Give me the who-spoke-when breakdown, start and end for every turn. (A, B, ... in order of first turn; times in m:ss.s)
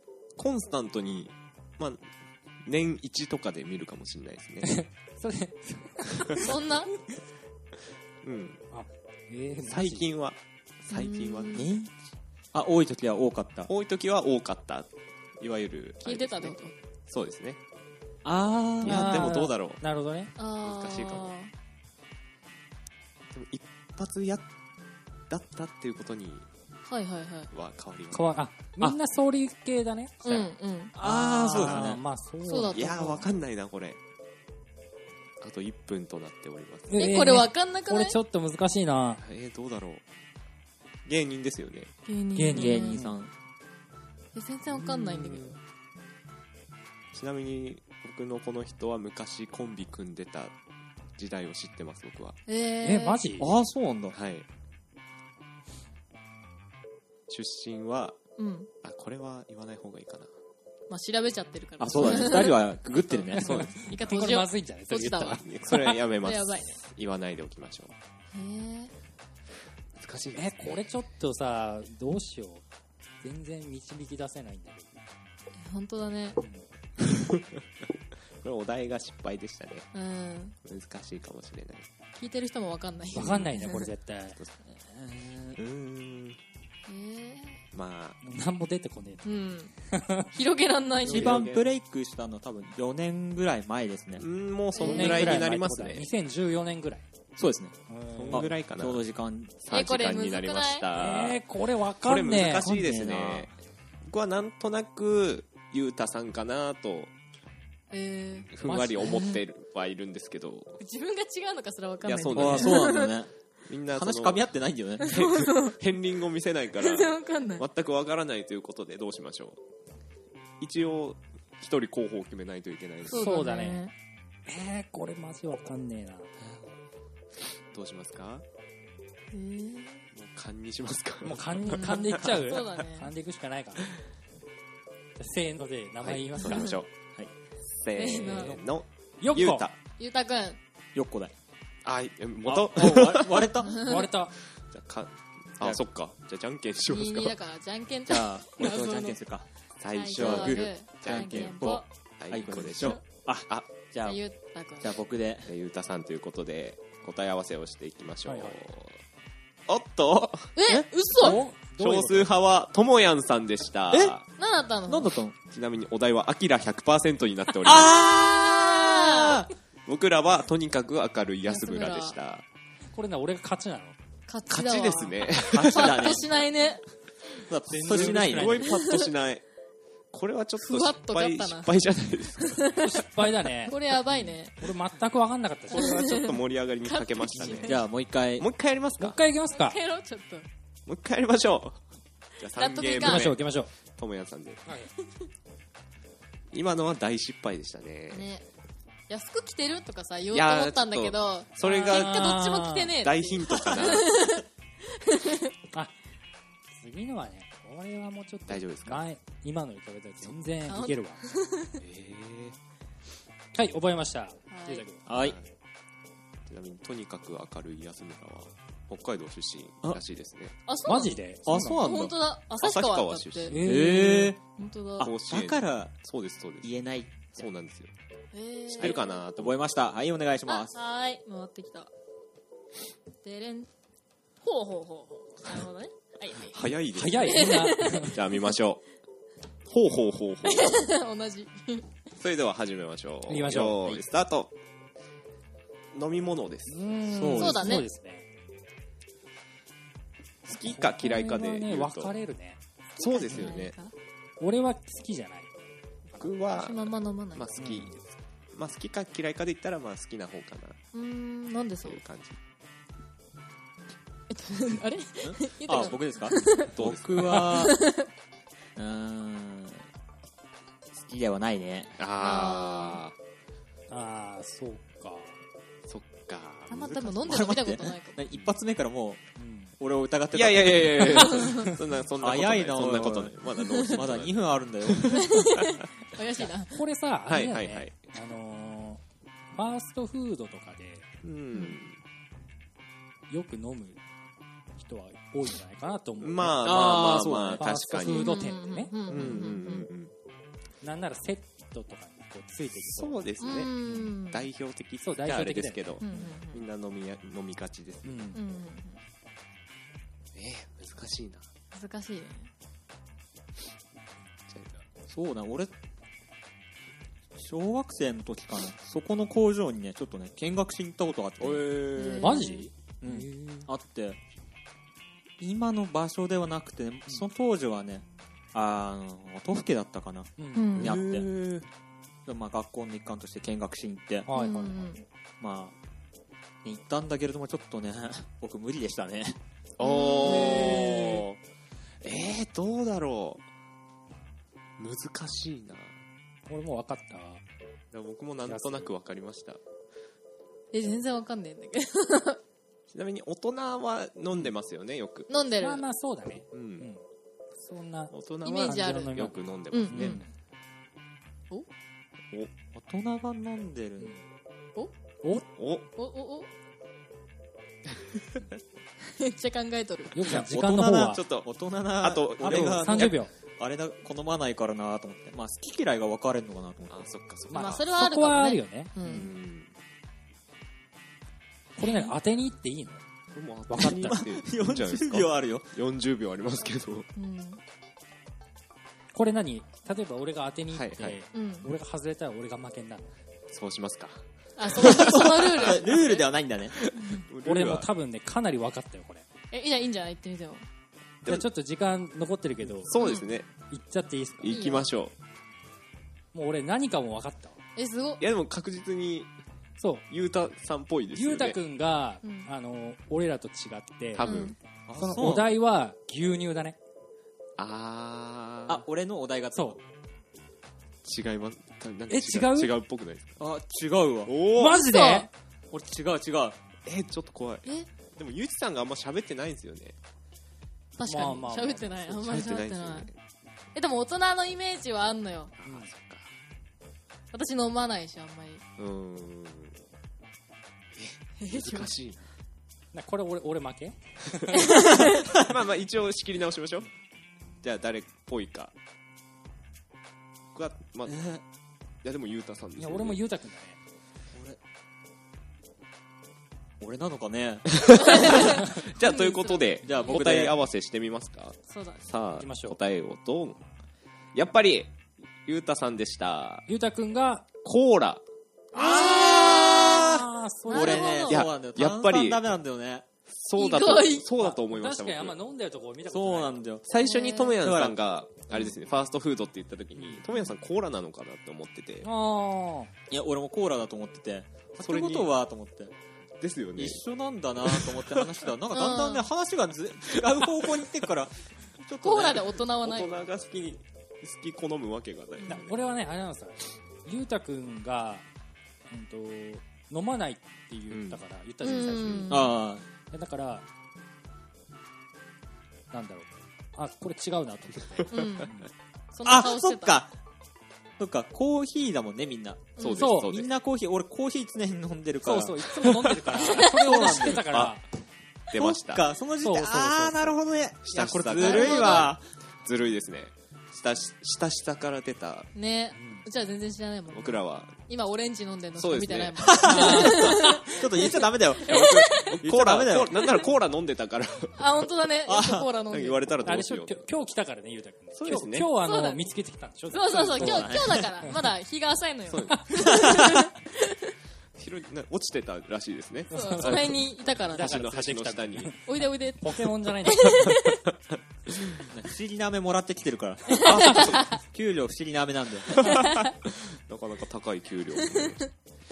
0:00.4-0:02.1 A
0:02.6-0:04.8 A
0:04.6-0:06.5 B
0:06.4-0:06.9 C
0:08.2-0:08.6 A
0:08.7-0:10.1 B
0:09.6-0:11.7 A
0:10.9-0:11.7 C
0:11.5-0:11.9 D
0:12.5-0:13.7 D
0:13.7-0:17.6 A
0:16.0-0:16.7 C
0:18.2-0:19.3 D
0:18.8-0:19.8 A
0:18.8-0:20.3 B
0:20.4-0:21.5 C
0:20.6-0:21.3 A
0:23.3-0:24.5 A
0:25.3-0:26.5 A
0:26.9-0:27.5 C
0:27.5-0:28.3 A
0:28.1-0:30.4 B
0:30.2-0:30.9 C
0:31.0-0:32.0 D
0:31.0-0:32.8 B
0:31.6-0:31.9 A
0:32.5-0:33.3 C
0:32.7-0:34.0 A
0:35.4-0:37.0 A
0:36.9-0:39.2 B
0:37.0-0:38.2 C
0:39.2-0:40.0 A
0:41.0-0:42.0 A
0:42.1-0:43.0 C
0:42.4-0:43.2 B
0:42.5-0:43.3 D
0:44.3-0:45.5 C
0:44.7-0:45.6 A
0:47.1-0:50.6 A
0:51.2-0:52.4 A
0:52.5-0:53.2 C
0:52.8-0:53.6 B
0:53.4-0:54.2 D
0:54.1-0:54.5 A
0:57.3-0:58.2 A
0:58.4-0:58.7 C
0:58.8-1:00.3 A
1:00.9-1:06.8 C
1:01.8-1:03.7 D
1:03.5-1:03.8 A
1:03.5-1:05.5 B
1:05.4-1:08.0 A
1:08.3-1:08.9 C
1:10.0-1:10.8 A
1:10.4-1:12.6 B
1:13.2-1:15.0 B
1:15.6-1:16.4 C
1:16.4-1:16.6 B
1:18.4-1:19.9 A
1:19.9-1:20.6 C
1:20.6-1:21.9 A
1:22.2-1:23.9 C
1:23.2-1:24.4 B
1:23.2-1:23.5 A
1:24.6-1:25.6 D
1:25.6-1:26.4 A
1:26.9-1:27.6 C
1:27.7-1:28.2 A
1:28.2-1:29.3 B
1:29.2-1:29.7 C
1:29.9-1:30.3 B
1:30.3-1:31.6 C
1:31.0-1:34.3 D
1:31.1-1:31.7 A
1:34.2-1:36.1 A
1:34.8-1:35.4 C
1:34.8-1:37.0 B
1:37.4-1:37.8 D
1:37.9-1:38.5 B
1:38.2-1:39.0 A
1:38.3-1:39.5 D
1:39.6-1:41.4 A
1:39.7-1:40.9 C
1:41.0-1:42.7 B
1:42.0-1:43.5 A
1:42.4-1:43.5 D
1:44.1-1:47.1 A
1:47.9-1:48.5 C
1:48.5-1:50.8 A
1:48.6-1:49.4 B
1:50.8-1:53.2 C
1:52.0-1:52.9 A
1:52.3-1:53.3 D
1:53.7-1:54.4 A
1:53.9-1:55.2 D
1:55.0-1:55.8 C
1:55.0-1:59.6 A
1:56.8-1:57.6 C
2:00.6-2:03.4 A
2:03.0-2:03.9 C
2:03.1-2:03.8 B
2:04.5-2:06.3 B
2:07.7-2:08.4 A
2:09.3-2:10.1 C
2:10.1-2:12.7 A
2:11.2-2:13.9 B
2:11.7-2:13.1 C
2:15.2-2:16.7 B
2:16.0-2:16.9 A
2:17.6-2:19.8 A
2:18.0-2:18.6 C
2:19.2-2:19.7 B
2:20.0-2:20.6 C
2:21.0-2:21.3 D
2:21.8-2:23.5 A
2:22.4-2:23.9 D
2:23.7-2:24.3 B
2:24.7-2:27.4 A
2:26.9-2:29.2 C
2:28.1-2:29.5 D
2:29.8-2:33.7 A
2:29.9-2:33.0 C
2:30.1-2:34.2 D
2:34.0-2:34.9 C
2:34.8-2:35.5 D
2:35.5-2:39.0 A
2:38.3-2:38.6 B
2:39.7-2:40.5 A
2:40.6-2:41.4 C
2:41.1-2:42.3 B
2:41.2-2:44.2 A
2:43.9-2:44.2 D
2:44.4-2:45.1 C
2:44.9-2:45.4 D
2:45.5-2:48.0 A
2:47.6-2:49.5 D
2:48.4-2:49.5 C
2:49.9-2:52.4 A
2:51.5-2:52.2 C
2:52.9-2:54.0 B
2:54.3-2:56.8 C
2:54.5-2:56.3 A
2:55.5-2:56.2 D
2:57.5-2:58.7 D
2:57.7-2:58.7 B
2:57.9-2:59.4 A
2:58.6-2:59.1 C
3:00.1-3:02.8 A
3:00.6-3:01.7 C
3:02.4-3:02.9 C
3:02.8-3:03.8 B
3:03.7-3:04.6 C
3:04.6-3:06.1 B
3:05.7-3:07.8 A
3:05.7-3:07.8 C
3:07.4-3:08.5 D
3:08.4-3:09.2 A
3:09.0-3:09.8 B
3:09.5-3:10.5 C
3:10.9-3:11.8 A
3:12.4-3:13.4 A
3:12.5-3:13.3 C
3:13.0-3:13.7 B
3:14.0-3:14.6 A
3:16.5-3:18.3 A
3:18.1-3:18.5 C
3:19.1-3:25.5 C
3:20.3-3:22.4 A
3:21.6-3:22.9 B
3:23.0-3:24.3 A
3:26.7-3:31.2 B
3:28.5-3:29.0 A
3:30.7-3:31.8 C
3:31.8-3:32.6 A
3:33.5-3:35.0 B
3:34.5-3:34.8 C
3:35.1-3:35.4 D
3:35.2-3:35.5 A
3:36.5-3:40.6 A
3:40.7-3:41.2 C
3:40.9-3:41.8 B
3:41.5-3:42.2 D
3:41.8-3:43.8 C
3:42.6-3:43.6 A
3:43.5-3:44.4 B
3:43.6-3:44.4 D
3:44.6-3:45.1 C
3:45.0-3:46.0 D
3:45.0-3:46.7 A
3:46.6-3:47.5 D
3:47.4-3:47.9 A
3:48.3-3:49.2 C
3:48.7-3:50.8 D
3:48.8-3:49.6 A
3:50.5-3:51.9 C
3:53.2-3:53.7 C
3:54.4-3:56.6 C
3:56.5-3:58.8 A
3:56.9-3:58.2 B
3:57.3-3:58.5 C
3:59.7-4:00.9 A
4:00.4-4:01.9 C
4:02.2-4:04.5 A
4:03.3-4:03.9 B
4:05.9-4:06.8 A
4:06.7-4:08.3 B
4:07.1-4:07.8 D
4:07.3-4:07.9 C
4:10.5-4:12.1 A
4:10.5-4:12.6 B
4:13.0-4:13.9 C
4:13.0-4:13.8 A
4:13.3-4:13.5 B
4:14.4-4:15.5 B
4:16.2-4:20.8 A
4:16.5-4:17.5 C
4:17.6-4:17.9 B
4:20.9-4:22.0 C
4:21.8-4:22.4 A
4:24.3-4:28.1 C
4:25.2-4:27.8 D
4:26.7-4:27.5 A
4:28.8-4:29.8 D
4:30.9-4:32.0 D
4:32.0-4:33.2 A
4:32.2-4:33.0 C
4:33.9-4:35.3 B
4:35.9-4:37.1 A
4:36.7-4:38.2 C
4:36.9-4:39.2 D
4:39.4-4:39.7 B
4:39.8-4:41.4 D
4:40.3-4:45.8 A
4:41.3-4:41.7 C
4:42.2-4:45.3 D
4:45.1-4:46.8 C
4:46.7-4:49.0 B
4:47.3-4:48.0 A
4:49.5-4:51.1 B
4:51.2-4:52.0 A
4:53.3-4:54.0 B
4:54.8-4:57.0 B
4:56.2-4:58.5 A
4:56.6-4:57.7 D
4:57.6-4:59.4 B
4:58.0-4:59.9 C
4:59.1-5:00.1 A
5:00.8-5:04.1 B
5:02.7-5:03.7 A
5:03.4-5:04.5 C
5:04.3-5:08.4 A
5:05.0-5:06.0 B
5:06.0-5:06.7 C
5:08.0-5:08.4 B
5:08.3-5:09.0 C
5:10.4-5:11.5 A
5:11.7-5:12.5 C
5:14.5-5:14.8 A
5:15.1-5:15.7 D
5:17.4-5:21.8 D
5:21.4-5:22.5 A
5:22.0-5:22.7 C
5:22.2-5:23.7 B
5:23.0-5:24.2 D
5:25.4-5:31.3 D
5:30.4-5:30.8 B
5:30.5-5:31.0 C
5:30.8-5:31.7 A
5:32.3-5:34.3 D
5:34.3-5:34.9 B
5:34.3-5:35.0 C
5:35.4-5:35.8 D
5:36.6-5:39.4 D
5:39.8-5:41.4 A
5:39.8-5:40.9 C
5:40.6-5:41.0 B
5:42.0-5:43.4 A
5:44.8-5:46.0 A
5:46.5-5:47.4 B
5:47.9-5:49.6 A
5:48.5-5:48.9 B
5:50.7-5:52.4 C
5:52.9-5:55.3 A
5:55.3-5:55.8 C
5:55.6-5:57.0 B
5:56.5-5:56.9 A
5:57.6-6:00.3 B
5:58.1-6:00.2 A
5:58.4-6:00.2 C
6:02.7-6:04.2 D
6:05.2-6:05.5 B
6:05.5-6:05.9 A
6:06.0-6:06.5 C
6:09.1-6:10.2 C
6:10.1-6:11.2 B
6:10.3-6:17.0 D
6:11.0-6:13.2 A
6:12.4-6:13.3 B
6:16.9-6:17.9 A
6:17.5-6:19.0 B
6:17.5-6:19.3 C
6:19.0-6:19.7 A
6:21.8-6:23.0 B
6:23.3-6:27.1 A
6:23.7-6:24.2 B
6:23.8-6:25.7 D
6:27.2-6:27.6 C
6:29.1-6:33.1 B
6:30.7-6:31.2 A
6:31.3-6:31.7 C
6:33.5-6:36.0 A
6:34.6-6:36.3 C
6:34.8-6:36.8 D
6:36.9-6:37.9 A
6:37.0-6:37.2 C
6:37.4-6:39.2 B
6:39.5-6:40.6 C
6:41.3-6:42.9 B
6:42.8-6:43.5 A
6:43.0-6:43.3 C
6:43.7-6:44.6 B
6:44.4-6:45.1 A
6:44.5-6:44.9 C
6:46.3-6:47.6 B
6:47.8-6:48.2 C
6:48.2-6:49.3 A
6:49.8-6:50.0 B
6:50.1-6:51.6 A
6:51.1-6:54.3 B
6:52.2-6:52.5 C
6:54.2-6:54.6 A
6:54.2-6:54.6 C
6:54.9-6:55.5 D
6:55.0-6:56.8 B
6:57.6-6:58.8 A
6:58.7-6:59.8 D
7:01.0-7:03.4 A
7:02.1-7:02.7 B
7:03.4-7:04.3 D
7:04.3-7:04.9 A
7:04.6-7:05.3 B
7:04.7-7:05.3 C
7:05.7-7:06.6 D
7:06.9-7:10.0 A
7:11.0-7:13.1 C
7:11.0-7:12.0 B
7:12.1-7:13.2 A
7:13.8-7:15.5 C
7:15.6-7:16.3 A
7:15.6-7:15.9 B
7:17.3-7:18.6 C
7:18.8-7:19.8 A
7:21.0-7:22.2 A
7:21.4-7:21.9 C
7:22.9-7:24.7 B
7:24.6-7:25.3 C
7:25.4-7:26.9 A
7:27.6-7:28.7 A
7:30.5-7:31.2 A
7:31.1-7:31.4 D
7:32.0-7:33.2 A
7:32.8-7:33.8 B
7:34.3-7:34.6 D
7:36.8-7:38.4 D
7:37.8-7:43.6 A
7:38.0-7:40.3 C
7:39.8-7:40.5 D
7:41.7-7:42.0 C
7:42.4-7:42.8 B
7:44.3-7:46.7 A
7:46.7-7:47.4 B
7:47.6-7:48.2 A
7:48.7-7:53.1 D
7:48.8-7:50.2 C
7:48.9-7:49.2 B
7:49.8-7:51.1 B
7:50.7-7:51.4 C
7:51.1-7:52.4 A
7:53.3-7:55.4 A
7:53.6-7:54.3 C
7:54.4-7:56.6 B
7:56.1-7:56.9 D
7:56.9-8:02.1 A
7:57.0-7:57.6 C
7:57.6-7:58.0 D
8:00.0-8:00.2 B
8:02.0-8:02.9 B
8:03.1-8:05.9 D
8:04.8-8:05.3 A
8:06.4-8:07.0 A
8:06.8-8:12.6 D
8:07.7-8:08.3 A
8:08.7-8:09.3 C
8:12.0-8:13.2 C
8:12.8-8:15.8 A
8:15.5-8:18.2 B
8:18.9-8:22.6 B
8:20.9-8:21.2 A
8:21.6-8:22.5 C
8:22.3-8:22.8 D
8:23.1-8:23.7 B
8:25.9-8:28.7 B
8:28.1-8:28.5 C
8:29.1-8:30.0 C
8:29.2-8:30.1 D
8:31.0-8:35.9 D
8:32.8-8:33.1 C
8:32.8-8:33.5 A
8:33.0-8:33.4 B
8:35.2-8:37.8 B
8:35.8-8:37.8 A
8:36.6-8:37.6 D
8:38.5-8:39.1 A
8:38.6-8:42.2 D
8:39.4-8:40.3 B
8:40.8-8:45.5 A
8:41.4-8:42.1 C
8:45.6-8:52.4 C
8:46.0-8:46.2 B
8:47.1-8:47.7 A
8:48.8-8:50.3 A
8:49.4-8:53.4 D
8:49.6-8:50.5 B
8:51.7-8:54.6 A
8:54.6-8:56.3 C
8:55.3-8:55.7 D
8:55.9-8:57.0 A
8:56.4-9:00.7 B
8:58.1-8:58.7 A
8:58.8-8:59.2 C
8:59.9-9:04.1 C
9:00.4-9:01.1 D
9:02.3-9:02.9 A
9:02.8-9:03.5 D
9:04.6-9:07.0 A
9:06.3-9:07.0 B
9:06.3-9:07.8 C
9:07.5-9:08.8 A
9:07.5-9:08.8 B
9:08.8-9:10.8 C
9:09.4-9:10.5 B
9:10.6-9:11.8 A
9:11.9-9:15.9 D
9:13.5-9:14.3 C
9:13.6-9:14.4 A
9:15.8-9:18.6 A
9:15.8-9:16.3 C